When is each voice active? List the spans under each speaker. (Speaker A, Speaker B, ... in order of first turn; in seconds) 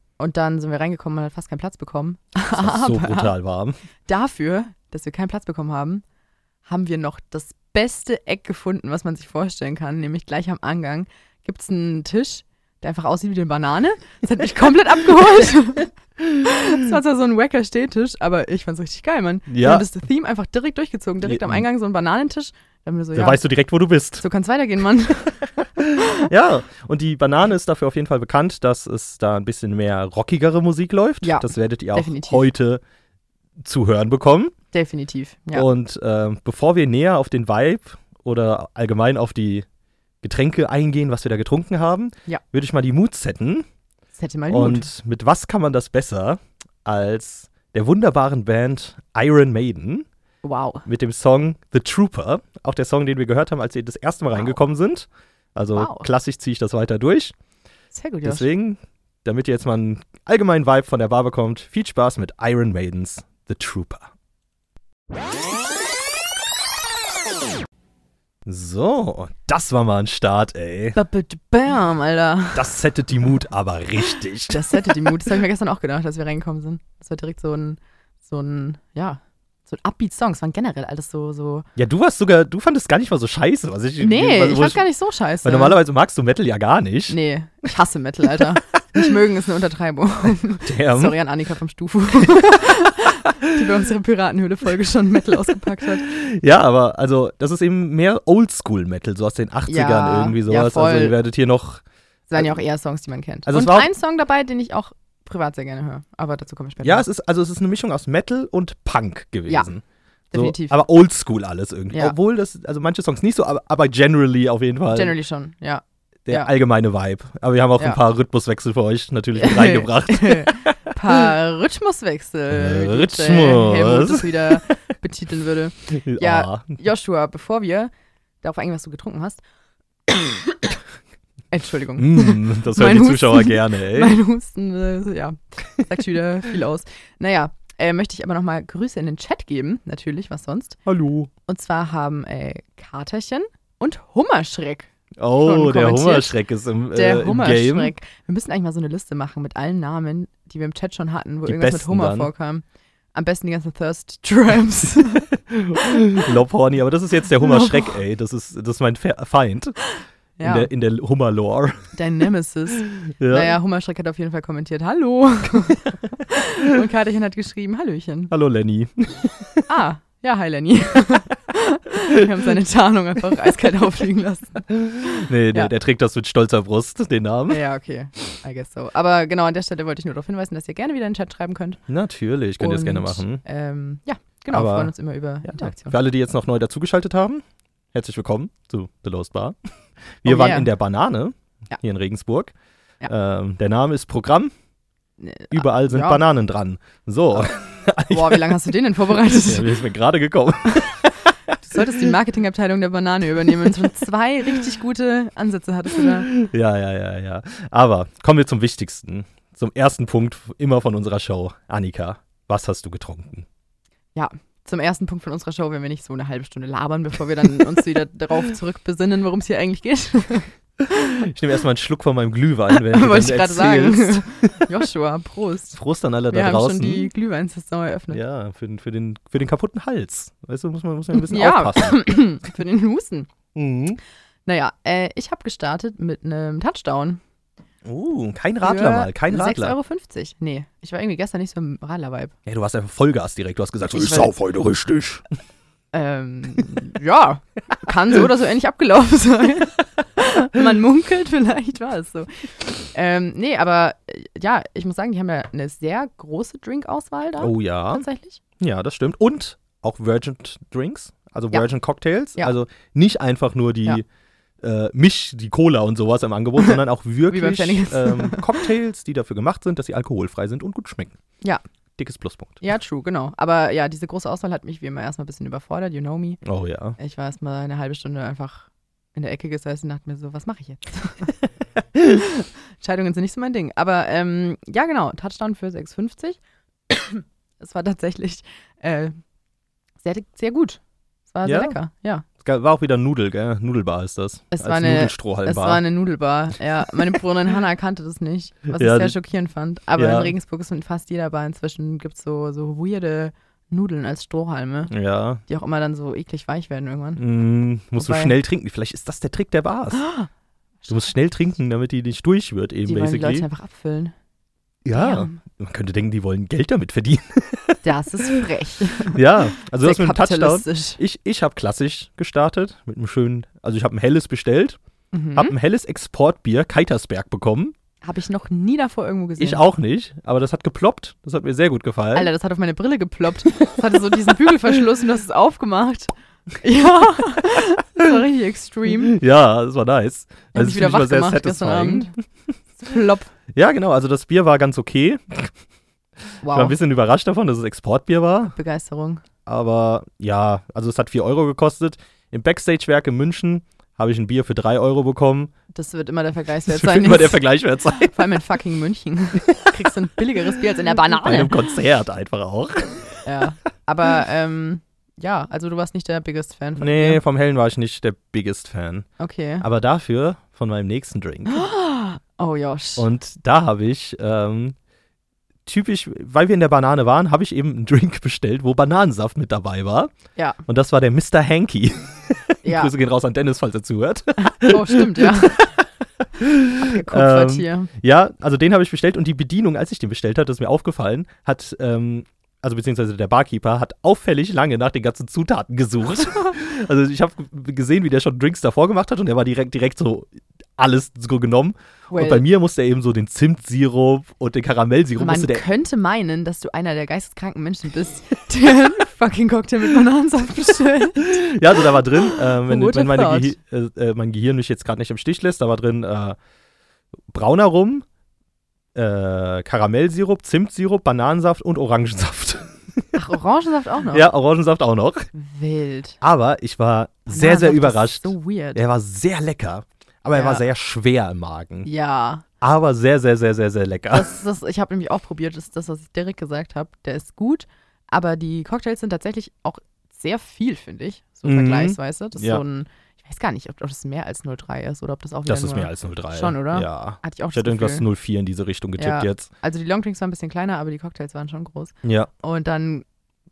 Speaker A: 0.2-3.3, 4.1-6.0, 6.7-15.9, 16.4-23.4, 24.2-25.4, 31.2-32.5, 34.7-35.7, 44.2-44.9, 50.4-50.9, 55.7-56.1, 57.9-58.5, 70.9-72.7, 74.5-81.7, 84.0-85.8, 87.1-96.1, 99.7-101.2, 102.3-107.1, 110.3-110.8, 111.9-112.2, 114.9-116.5, 119.4-127.9, 128.4-129.4, 131.5-140.8, 141.5-146.4, 146.9-155.2, 157.4-158.0, 160.4-160.7, 161.9-168.3, 169.7-175.7, 177.5-181.8, 182.6-186.0, 190.2-190.7, 195.2-196.2, 198.1-199.7, 201.6-206.3, 214.2-220.5, 222.7-225.8, 226.3-228.2, 231.1-233.3, 234.5-237.2, 238.6-242.3, 243.9-244.3, 245.9-258.4, 267.3-268.6, 272.6-276.4, 277.0-281.3, 282.1-286.4, 286.9-289.1, 290.0-292.2, 294.5-304.9, 305.5-307.2, 308.0-308.3, 310.0-310.3, 310.8-311.1, 312.9-314.1, 314.9-315.4, 317.8-321.0, 325.1-325.5, 328.0-329.6, 332.1-339.2, 340.5-342.1, 342.8-343.3, 346.4-346.8, 348.5-349.2, 355.7-357.4, 358.0-361.7, 363.2-367.2, 369.2-369.6, 371.5-373.1, 382.6-382.9, 384.4-385.6, 386.8-387.9, 402.1-402.4, 405.2-411.5, 412.3-413.5, 423.1-424.3, 425.3-426.2, 427.3-428.8, 430.3-430.6, 431.9-432.4, 434.1-448.1, 449.0-453.1
Speaker B: 2.5-3.8, 19.5-19.9, 21.2-21.6, 23.1-24.2, 25.8-32.8, 33.6-34.5, 35.5-39.7, 40.2-43.7, 44.5-50.1, 50.9-57.3, 58.2-64.1, 68.5-71.0, 72.5-75.2, 81.8-84.8, 85.4-87.2, 90.7-91.2, 96.0-101.8, 103.5-103.9, 106.8-115.2, 116.3-120.9, 122.5-124.7, 125.9-126.8, 132.0-134.2, 140.9-141.3, 145.2-147.9, 151.5-152.3, 155.5-159.8, 160.4-161.9, 163.0-163.6, 168.3-169.6, 174.7-177.6, 181.9-183.4, 184.5-189.6, 190.2-192.5, 193.1-194.5, 195.5-198.8, 199.3-201.1, 206.3-213.5, 221.2-224.7, 225.7-227.1, 228.1-232.0, 233.6-234.0, 237.8-239.8, 242.5-245.2, 257.4-258.1, 258.6-264.1, 264.6-271.2, 272.0-272.6, 276.4-277.0, 291.4-291.8, 292.4-295.8, 298.7-299.2, 299.9-300.3, 304.9-305.4, 307.2-310.1, 310.9-313.5, 314.9-318.3, 319.1-324.8, 325.4-327.8, 329.4-332.3, 339.1-342.2, 343.5-345.5, 346.5-348.6, 349.5-355.5, 356.7-358.2, 359.5-359.7, 361.1-363.2, 366.8-369.1, 369.6-371.6, 373.0-374.8, 375.7-380.1, 380.7-385.9, 386.4-405.7, 411.2-416.4, 417.3-418.1, 418.9-422.7, 424.1-425.3, 426.2-431.9, 432.6-434.3, 441.4-442.6, 445.5-449.5, 452.0-452.3